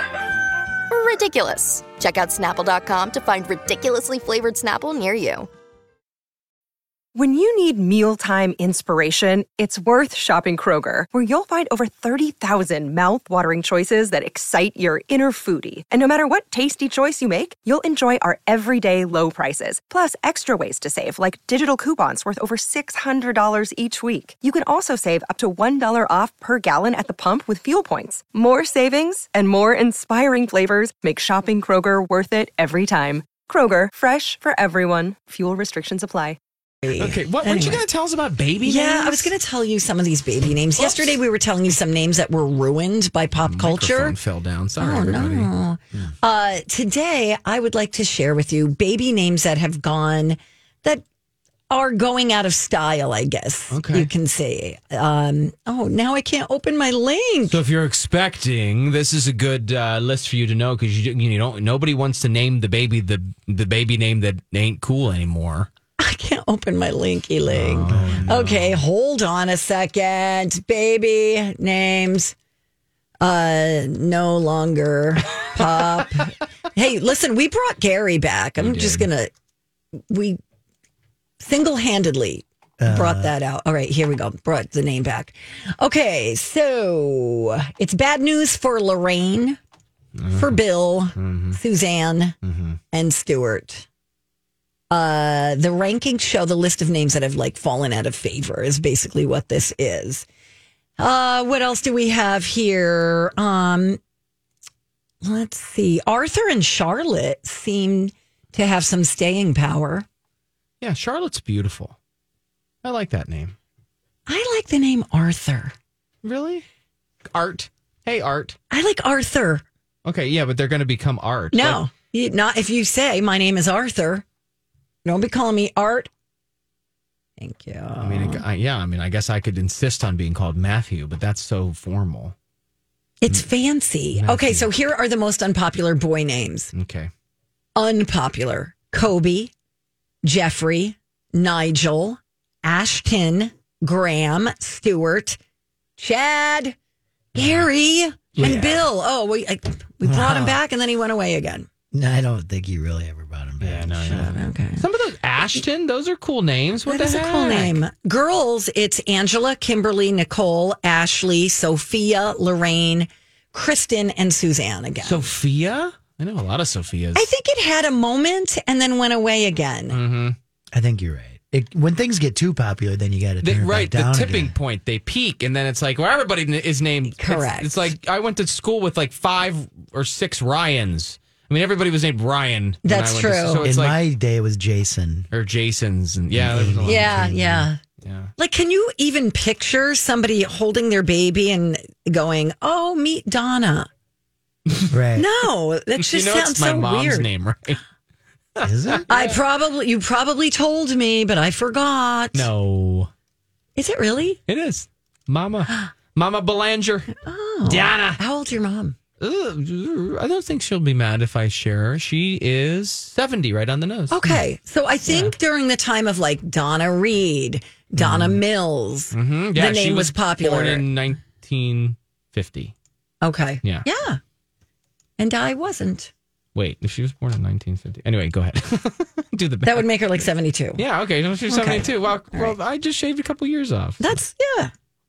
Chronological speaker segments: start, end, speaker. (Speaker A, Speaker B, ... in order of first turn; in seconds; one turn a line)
Speaker A: 0.9-5.5
Speaker B: 7.1-36.4
Speaker C: 36.8-37.8
Speaker D: 37.0-39.3
Speaker C: 38.6-44.2
Speaker D: 40.8-41.1
Speaker D: 43.4-46.0
Speaker C: 44.8-51.0
Speaker C: 51.7-57.6
Speaker D: 53.7-54.1
Speaker D: 57.5-65.7
Speaker C: 66.0-72.3
Speaker D: 67.5-68.8
Speaker E: 67.9-68.5
Speaker C: 73.2-79.3
Speaker D: 78.6-79.1
Speaker C: 80.1-80.4
Speaker C: 81.4-89.6
Speaker E: 82.8-83.3
Speaker D: 90.2-90.6
Speaker C: 90.3-92.3
Speaker D: 91.2-91.6
Speaker D: 92.4-92.8
Speaker C: 92.9-93.9
Speaker C: 94.9-100.3
Speaker C: 101.0-104.0
Speaker C: 105.2-110.0
Speaker D: 110.8-112.0
Speaker D: 112.8-113.5
Speaker C: 114.3-115.7
Speaker D: 116.2-116.6
Speaker D: 117.3-118.6
Speaker C: 118.7-119.6
Speaker D: 120.0-121.8
Speaker C: 121.5-124.2
Speaker C: 125.0-126.1
Speaker C: 127.4-128.4
Speaker D: 128.0-132.3
Speaker C: 133.2-136.7
Speaker D: 134.1-134.7
Speaker D: 136.7-137.1
Speaker C: 137.8-139.5
Speaker C: 140.2-145.4
Speaker C: 146.0-146.8
Speaker C: 147.3-151.7
Speaker D: 147.4-147.6
Speaker E: 148.3-148.9
Speaker E: 150.0-150.6
Speaker E: 151.9-154.4
Speaker D: 153.6-157.8
Speaker C: 154.1-154.8
Speaker C: 156.9-165.3
Speaker D: 165.0-167.3
Speaker C: 167.1-170.0
Speaker D: 169.9-170.3
Speaker E: 170.7-174.5
Speaker D: 173.4-184.0
Speaker C: 177.1-177.9
Speaker C: 182.8-183.7
Speaker E: 183.6-185.3
Speaker D: 185.3-187.2
Speaker E: 186.3-187.7
Speaker C: 186.8-187.8
Speaker D: 188.0-188.3
Speaker C: 188.4-193.9
Speaker E: 194.9-195.3
Speaker C: 195.2-197.3
Speaker D: 195.9-197.8
Speaker D: 198.6-199.4
Speaker E: 198.6-199.2
Speaker C: 199.1-202.5
Speaker D: 202.3-203.1
Speaker C: 203.8-204.4
Speaker D: 204.5-207.1
Speaker C: 207.2-208.9
Speaker D: 207.6-208.2
Speaker D: 209.2-214.4
Speaker C: 214.1-220.9
Speaker D: 215.1-215.3
Speaker D: 218.0-218.4
Speaker D: 219.1-222.7
Speaker C: 223.2-224.2
Speaker C: 225.2-226.1
Speaker D: 226.5-229.9
Speaker C: 229.6-230.8
Speaker D: 230.8-234.2
Speaker C: 231.5-232.6
Speaker C: 234.0-234.7